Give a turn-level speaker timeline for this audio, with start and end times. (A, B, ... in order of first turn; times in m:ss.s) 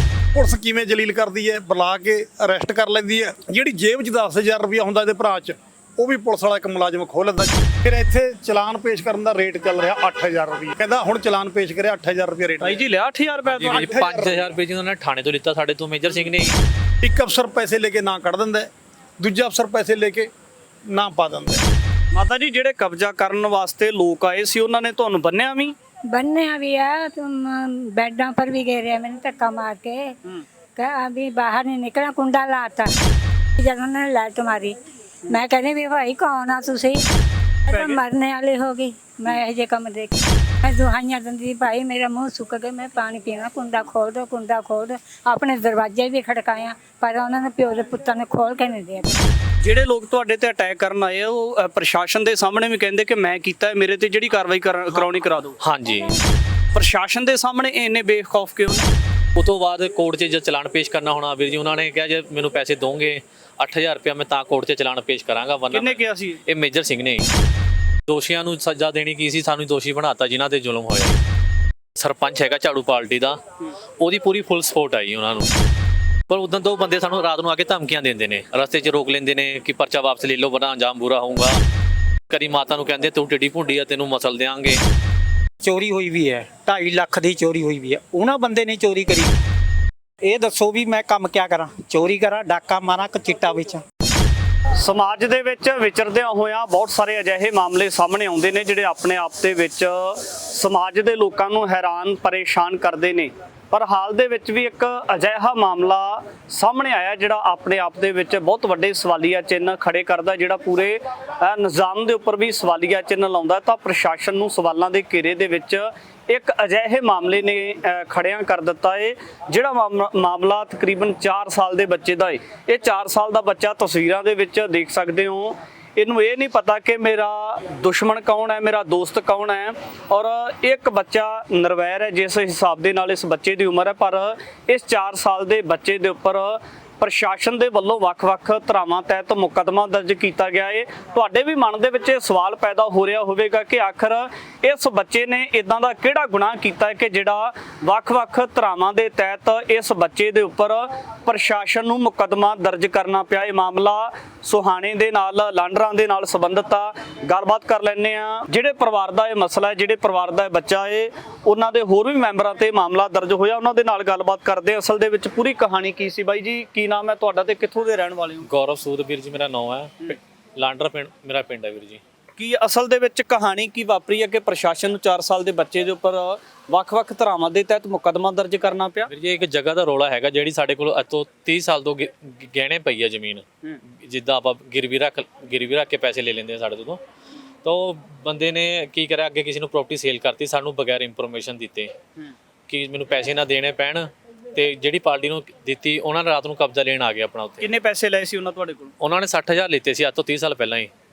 0:00.3-0:12.8 A
0:12.6-0:13.9 B
0:13.5-0:16.6 C
0:13.6-0:14.5 A
0:17.0-0:20.3 A
0:20.9-0:21.6 A
0:22.1-0:25.7 B
0:26.1-0:30.1 D
0:30.8-0:32.9 D
0:33.6-0:34.8 D
0:35.3-0:37.0 D
0:37.7-0:38.0 B
0:37.7-0:49.3 D
0:49.6-0:55.6 B
0:55.6-0:56.2 C
0:56.7-0:58.9 B
0:59.4-1:07.3 C
1:05.7-1:06.4 B
1:08.1-1:11.2 C
1:12.0-1:13.4 C
1:14.0-1:15.5 C
1:16.3-1:21.6 C
1:22.3-1:24.8 C
1:25.6-1:29.4 E
1:30.2-1:33.8 E
1:34.8-2:48.5 B
2:48.5-2:52.0 C
2:52.4-2:59.1 B
2:59.1-3:07.0 C
3:07.6-3:11.9 C
3:12.7-3:17.7 C
3:17.6-3:18.9 B
3:19.0-3:20.9 C